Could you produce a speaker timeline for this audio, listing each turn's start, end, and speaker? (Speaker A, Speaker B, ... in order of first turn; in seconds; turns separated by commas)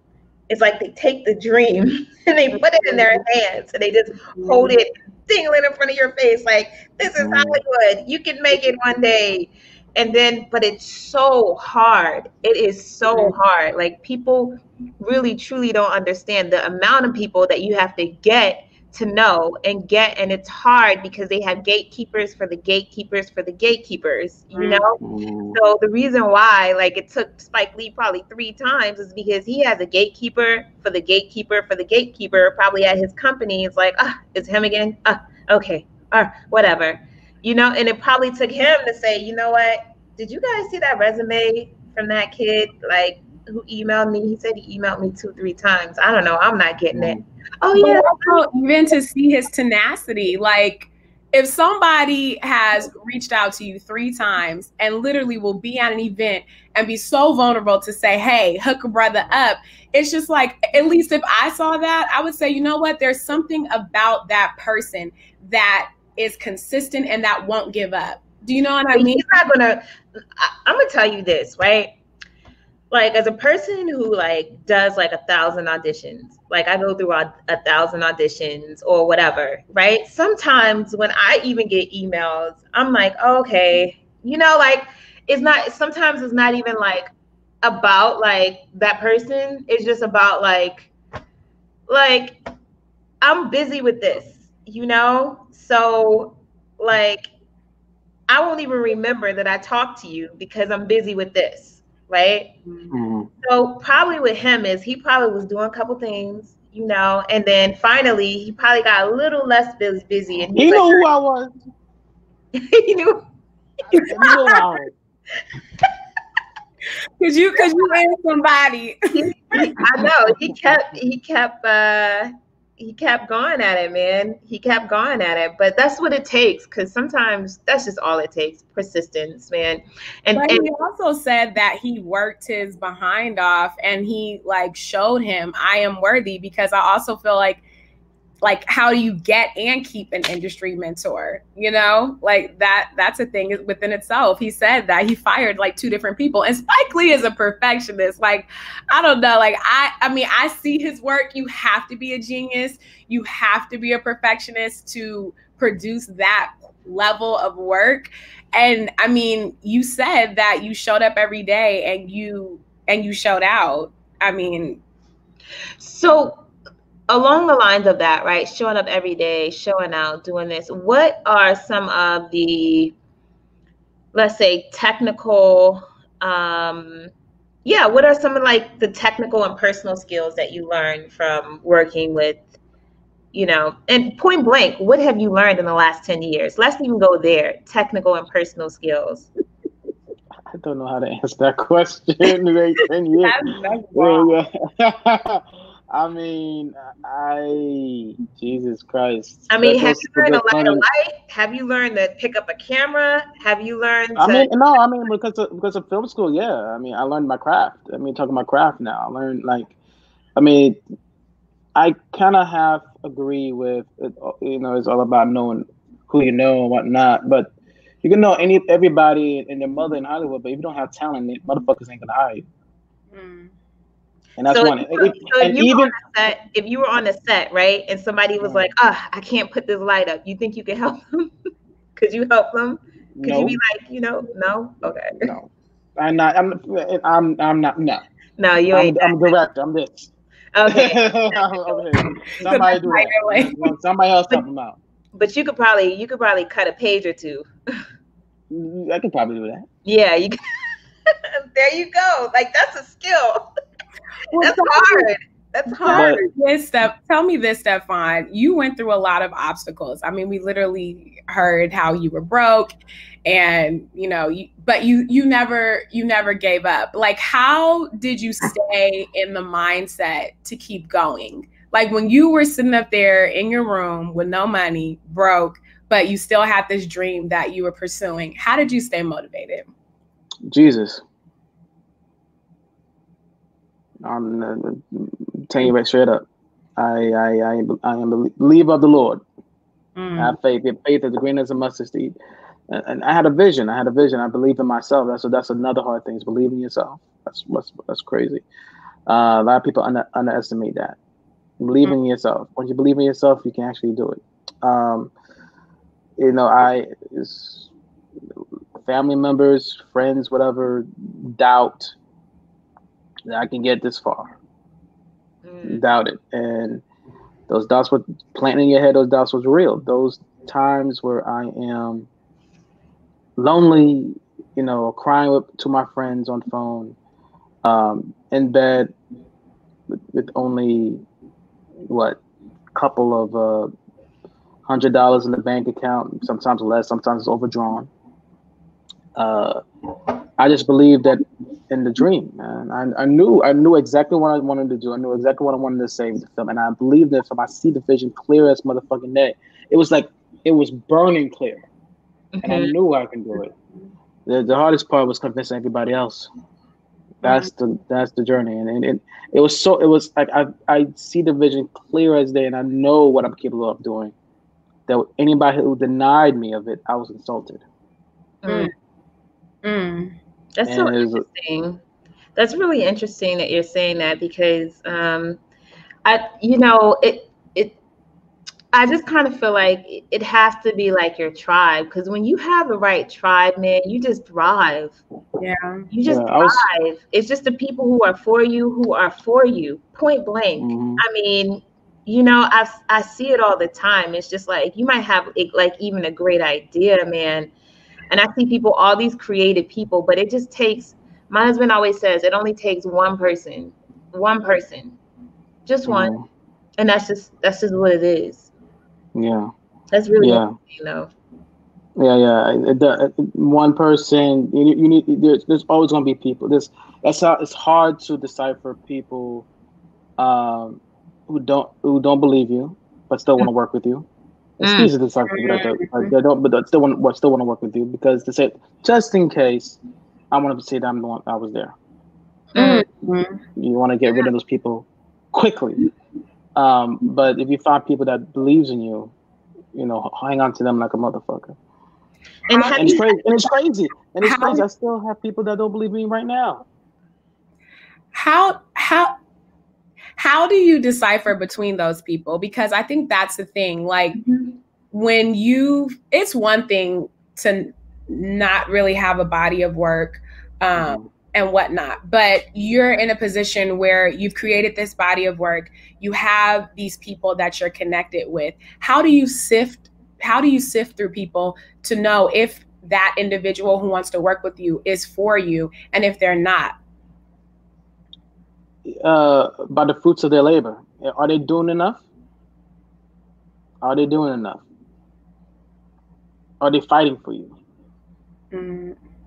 Speaker A: 0.5-25.0, Speaker B: 4.4-4.8, Speaker C: 7.2-7.6, Speaker B: 13.1-13.3, Speaker B: 24.5-24.9, Speaker C: 25.0-25.6, Speaker A: 25.5-48.4, Speaker C: 47.0-47.2, Speaker B: 47.8-69.3, Speaker A: 68.9-69.8, Speaker A: 70.4-72.0, Speaker A: 72.9-87.1, Speaker A: 87.6-90.9, Speaker A: 91.9-92.4, Speaker A: 93.2-97.3, Speaker A: 98.3-102.5, Speaker C: 102.9-103.3, Speaker A: 103.4-111.1, Speaker C: 110.5-111.5, Speaker A: 112.5-113.2, Speaker B: 114.0-114.5, Speaker A: 114.0-114.6, Speaker C: 114.0-114.9, Speaker B: 117.2-119.8, Speaker A: 117.6-117.9, Speaker A: 119.1-130.7, Speaker B: 130.4-137.6, Speaker B: 138.4-164.8, Speaker A: 165.8-166.4, Speaker A: 167.1-172.9, Speaker A: 174.1-177.1, Speaker A: 177.7-182.4, Speaker A: 183.3-189.3, Speaker C: 190.5-193.4, Speaker B: 193.2-194.3, Speaker C: 193.9-200.8, Speaker A: 199.5-204.5, Speaker C: 204.2-209.7, Speaker C: 210.4-210.8, Speaker C: 211.8-217.5, Speaker C: 218.0-222.4, Speaker B: 223.1-223.5, Speaker C: 224.4-225.9, Speaker A: 224.5-231.3, Speaker C: 228.4-228.7, Speaker A: 232.0-235.3, Speaker C: 233.2-233.6, Speaker C: 235.2-238.0, Speaker A: 238.4-239.3, Speaker C: 238.7-240.1, Speaker A: 240.6-241.8, Speaker C: 240.7-244.8, Speaker B: 242.4-243.7, Speaker A: 245.2-247.5, Speaker C: 248.5-249.7, Speaker A: 249.9-250.4, Speaker A: 251.5-253.4, Speaker B: 254.3-255.1, Speaker A: 254.4-256.2, Speaker B: 255.8-262.7, Speaker C: 255.9-256.2, Speaker B: 263.2-279.7, Speaker C: 280.5-281.0, Speaker C: 284.0-286.3, Speaker C: 286.8-289.2, Speaker B: 290.0-290.4, Speaker C: 290.2-292.1, Speaker C: 292.7-298.4, Speaker C: 299.1-301.0, Speaker C: 301.6-305.1, Speaker C: 306.2-307.7, Speaker C: 308.8-311.9, Speaker C: 313.3-314.4, Speaker A: 315.4-315.8, Speaker C: 315.6-316.8, Speaker C: 317.5-322.1, Speaker C: 323.4-327.0, Speaker C: 327.6-328.9, Speaker C: 329.9-331.0, Speaker C: 331.9-332.2, Speaker C: 332.8-333.7, Speaker C: 334.7-337.9, Speaker C: 339.2-339.6, Speaker C: 340.4-351.7, Speaker A: 352.4-352.7, Speaker C: 352.4-353.5, Speaker C: 354.3-356.3, Speaker C: 357.2-364.1, Speaker C: 364.9-367.6, Speaker A: 368.4-368.7, Speaker B: 369.6-370.1, Speaker A: 370.6-371.8, Speaker C: 370.6-371.2, Speaker A: 372.4-375.4, Speaker A: 376.1-377.8, Speaker A: 378.7-385.0, Speaker B: 385.4-385.9, Speaker A: 385.9-397.5, Speaker C: 386.1-386.6, Speaker C: 390.6-391.0, Speaker A: 398.1-405.0, Speaker A: 405.7-406.1, Speaker C: 405.9-406.2, Speaker A: 406.8-408.5, Speaker C: 409.1-409.5, Speaker A: 409.9-411.1, Speaker C: 410.2-410.5, Speaker C: 412.0-419.5, Speaker C: 420.2-424.1, Speaker A: 424.6-424.9, Speaker C: 424.6-429.8, Speaker B: 425.3-426.1, Speaker C: 430.3-431.7, Speaker B: 432.5-433.4, Speaker A: 432.6-432.8, Speaker C: 433.6-435.8, Speaker C: 436.6-439.1, Speaker C: 439.7-441.6, Speaker A: 442.5-443.2, Speaker B: 442.5-443.0, Speaker C: 442.8-446.6, Speaker A: 444.2-444.6, Speaker B: 448.1-449.1, Speaker B: 450.2-454.2, Speaker A: 454.2-454.5, Speaker B: 454.9-476.8, Speaker C: 460.8-461.1, Speaker C: 478.9-482.0, Speaker C: 483.8-484.6, Speaker C: 486.6-487.6, Speaker B: 488.5-489.0